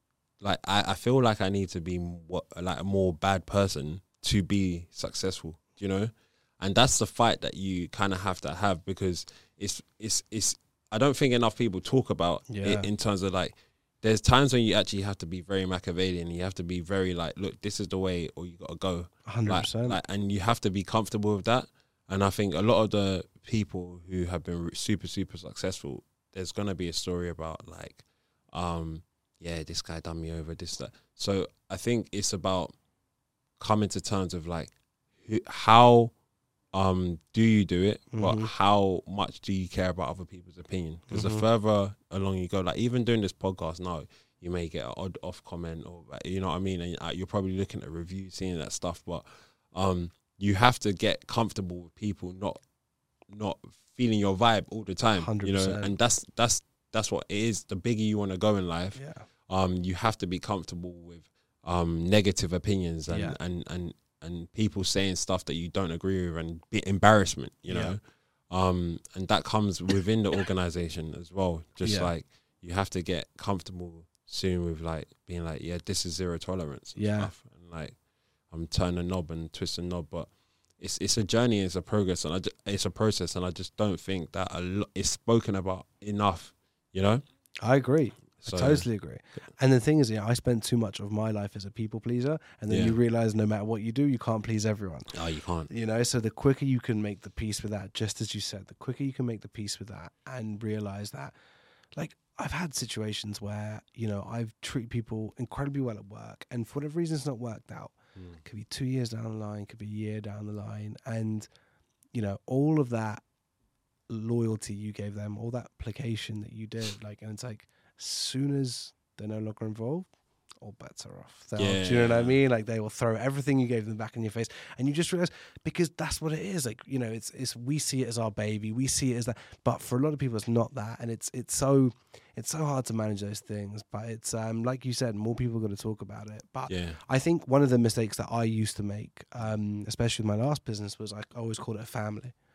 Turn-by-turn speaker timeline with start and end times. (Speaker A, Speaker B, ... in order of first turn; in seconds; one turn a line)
Speaker A: 0.4-32.7
Speaker B: 12.5-12.9
Speaker B: 19.3-20.0
Speaker A: 33.6-34.7
Speaker A: 35.2-36.1
Speaker A: 36.7-52.6
Speaker B: 38.1-38.5
Speaker B: 41.1-41.4
Speaker A: 53.3-78.0
Speaker B: 55.2-55.9
Speaker B: 59.0-59.2
Speaker B: 63.1-63.4
Speaker B: 67.7-68.0
Speaker B: 71.8-72.1
Speaker B: 77.0-77.3
Speaker A: 78.5-87.2
Speaker B: 87.6-95.1
Speaker A: 88.4-88.8
Speaker A: 92.7-93.0
Speaker A: 95.1-95.7
Speaker B: 95.7-101.3
Speaker B: 102.0-111.5
Speaker B: 112.1-113.2
Speaker B: 114.1-120.1
Speaker B: 120.6-142.3
Speaker A: 121.6-122.4
Speaker A: 136.7-137.0